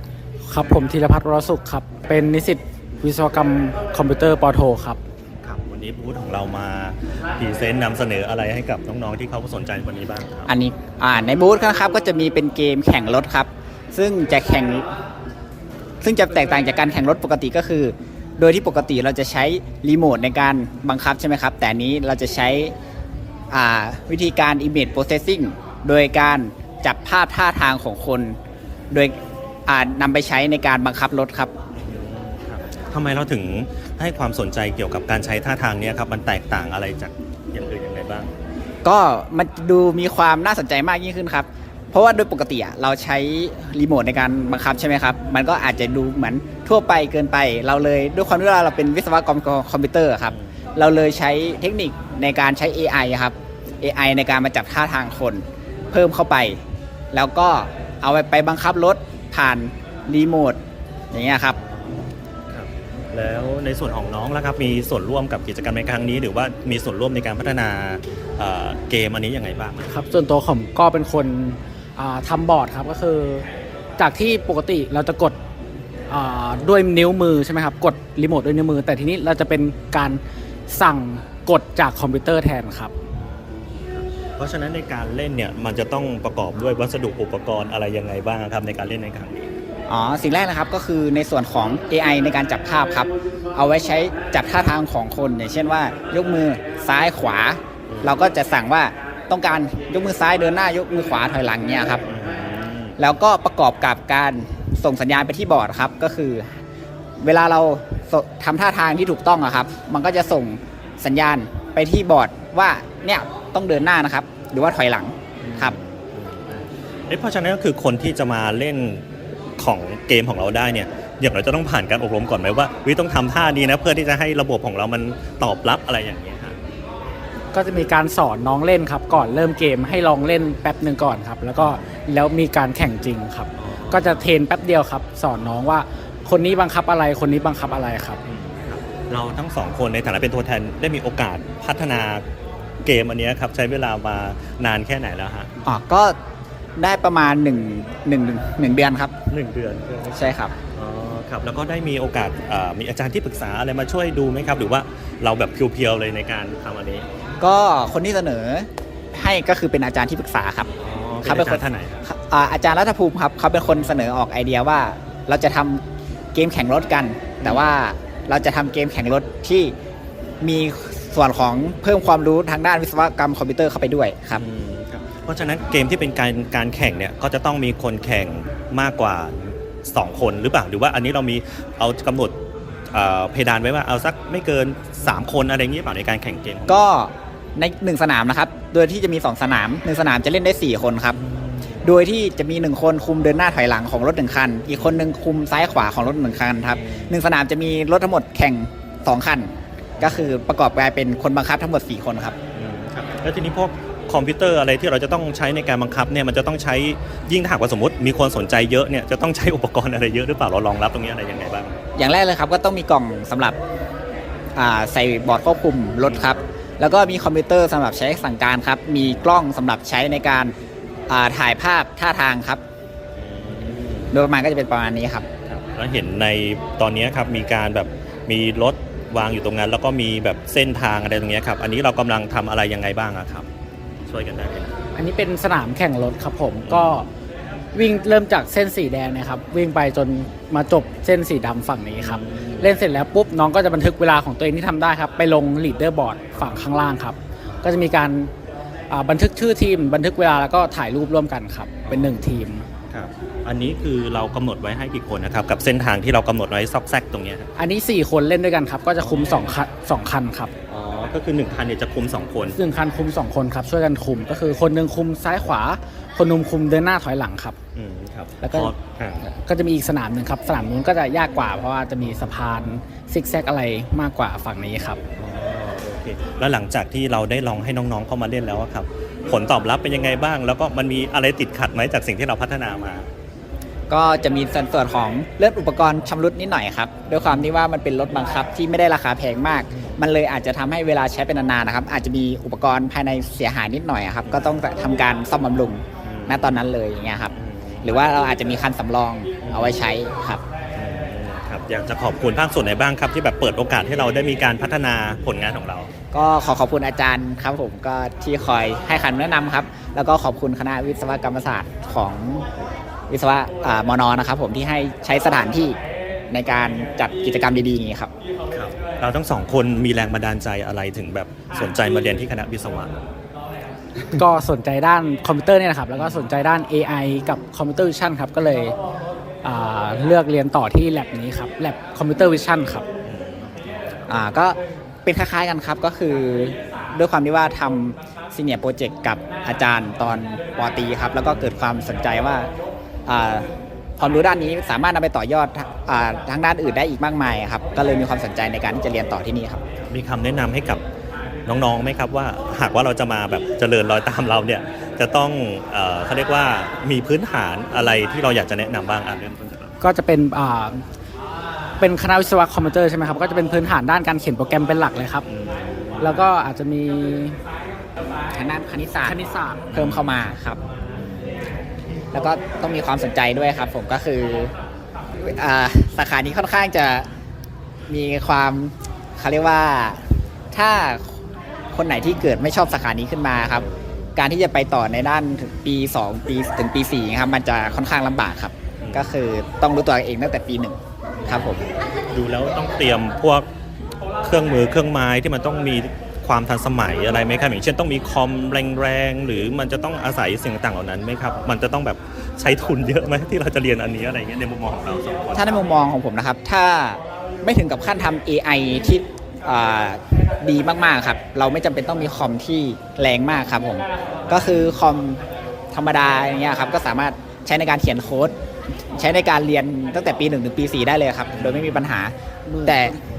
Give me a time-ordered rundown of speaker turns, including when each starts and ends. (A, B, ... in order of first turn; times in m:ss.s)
0:00.5-0:05.0 A
0:05.4-0:10.5 B
0:10.5-0:14.9 C
0:16.0-0:22.7 C
0:23.5-0:28.4 C
0:28.9-0:31.5 C
0:31.8-0:38.3 B
0:38.8-0:56.6 C
0:57.1-1:00.6 C
1:01.1-1:01.6 C
1:01.4-1:09.9 B
1:09.9-1:13.5 A
1:14.0-1:15.4 A
1:16.1-1:22.9 A
1:23.2-1:29.5 B
1:29.9-1:42.0 C
1:37.9-1:38.2 B
1:42.1-1:43.0 B
1:43.0-1:46.5 C
1:47.2-1:55.8 C
1:55.4-1:59.0 B
1:59.6-2:06.6 B
2:07.5-2:18.2 A
2:11.6-2:11.9 B
2:13.6-2:14.3 B
2:18.2-2:22.2 B
2:22.8-2:25.5 B
2:25.6-2:26.2 C
2:26.8-2:29.2 C
2:29.3-2:37.1 B
2:30.1-2:30.6 C
2:37.4-2:40.7 C
2:40.8-2:42.0 B
2:41.2-2:45.8 C
2:46.3-2:49.7 C
2:47.4-2:47.7 B
2:50.4-2:54.4 C
2:54.4-3:02.4 B
3:02.9-3:06.8 B
3:06.7-3:11.2 C
3:11.2-3:11.8 B
3:11.8-3:22.4 C
3:14.8-3:15.0 B
3:16.8-3:17.2 B
3:20.0-3:20.3 B
3:22.5-3:31.8 B
3:32.0-3:33.6 C
3:34.6-3:40.5 C
3:36.1-3:36.4 B
3:41.1-3:42.6 C
3:43.2-3:44.1 B
3:44.1-3:45.3 C
3:45.5-3:53.5 B
3:54.1-3:54.8 B
3:55.0-3:57.1 A
3:56.6-3:57.0 B
3:57.7-4:08.3 A
4:02.0-4:02.7 B
4:08.9-4:12.7 A
4:11.9-4:12.3 B
4:12.9-4:17.5 B
4:17.6-4:20.5 A
4:19.0-4:19.5 B
4:20.7-4:22.6 B
4:22.5-4:27.6 A
4:27.8-4:29.2 B
4:28.4-4:35.0 A
4:35.2-4:43.1 B
4:43.9-4:57.3 C
4:49.7-4:50.0 B
4:56.0-4:56.6 B
4:57.3-4:57.9 B
4:57.8-5:00.4 C
4:59.4-4:59.8 B
5:00.8-5:05.9 B
5:06.1-5:12.5 C
5:13.1-5:15.8 C
5:16.3-5:18.1 C
5:18.5-5:23.0 B
5:24.1-5:28.8 A
5:26.0-5:26.3 B
5:29.4-5:32.9 A
5:33.0-5:34.0 B
5:34.1-5:42.5 C
5:43.1-5:49.6 C
5:49.9-5:50.8 B
5:51.5-5:59.8 B
5:59.8-6:00.8 A
6:01.8-6:05.3 A
6:05.3-6:06.3 B
6:06.0-6:07.4 A
6:08.3-6:09.2 C
6:09.0-6:09.7 A
6:09.7-6:10.3 B
6:09.7-6:10.6 C
6:10.8-6:11.4 B
6:12.1-6:14.5 C
6:15.2-6:17.1 C
6:17.9-6:21.2 C
6:21.7-6:31.6 C
6:23.5-6:23.8 B
6:28.8-6:29.1 B
6:31.2-6:33.5 B
6:34.2-6:45.6 B
6:45.3-6:58.4 C
6:54.3-6:54.7 B
6:58.9-7:02.1 C
7:01.3-7:01.8 B
7:02.5-7:03.0 A
7:02.6-7:03.0 C